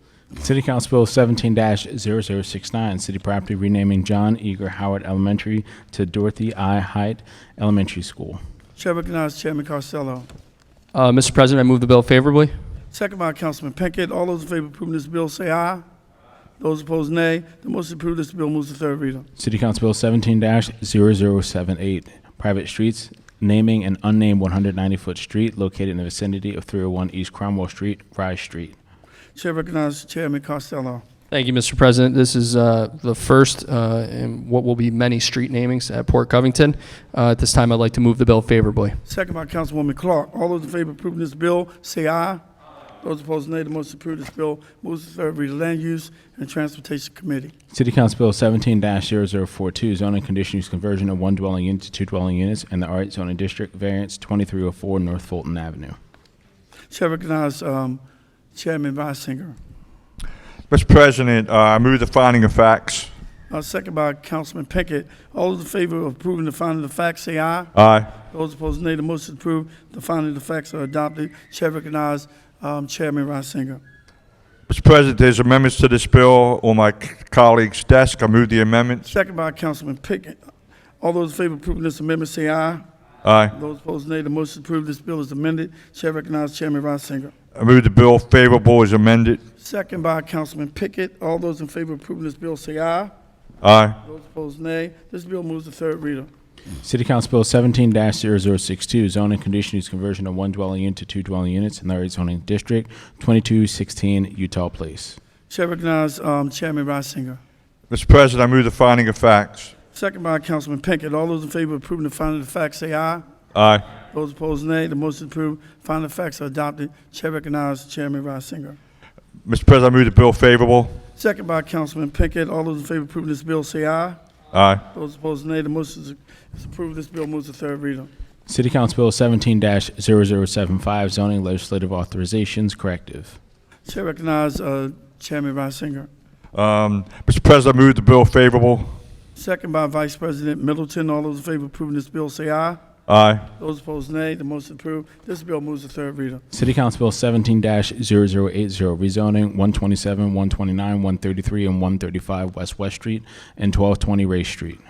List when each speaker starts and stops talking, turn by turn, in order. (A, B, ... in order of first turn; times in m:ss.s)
0:00.4-0:08.4 A
0:08.8-0:10.3 B
0:10.9-0:12.5 C
0:12.9-0:15.8 B
0:16.6-0:19.3 B
0:19.4-0:28.8 A
0:29.3-0:31.0 B
0:31.3-0:39.0 C
0:39.0-0:42.4 B
0:43.0-0:47.5 B
0:47.7-0:56.0 A
0:56.9-0:58.0 B
0:58.5-0:59.6 B
1:00.7-1:03.1 D
1:03.5-1:13.8 B
1:07.7-1:08.2 D
1:14.7-1:19.1 D
1:19.1-1:20.4 B
1:21.0-1:22.8 B
1:23.2-1:23.5 D
1:23.5-1:27.3 B
1:27.5-1:29.4 D
1:29.6-1:33.1 B
1:33.6-1:34.0 D
1:34.0-1:36.3 B
1:36.8-1:45.2 A
1:45.5-1:47.4 B
1:47.9-1:49.7 D
1:49.9-1:53.2 B
1:53.5-1:53.9 D
1:54.1-1:58.8 B
1:59.4-2:01.0 D
2:01.2-2:04.2 B
2:04.5-2:04.8 D
2:04.9-2:08.1 B
2:08.5-2:13.4 A
2:13.8-2:16.1 B
2:16.5-2:19.0 D
2:19.4-2:22.8 B
2:23.1-2:23.5 D
2:23.6-2:26.4 B
2:26.5-2:34.8 A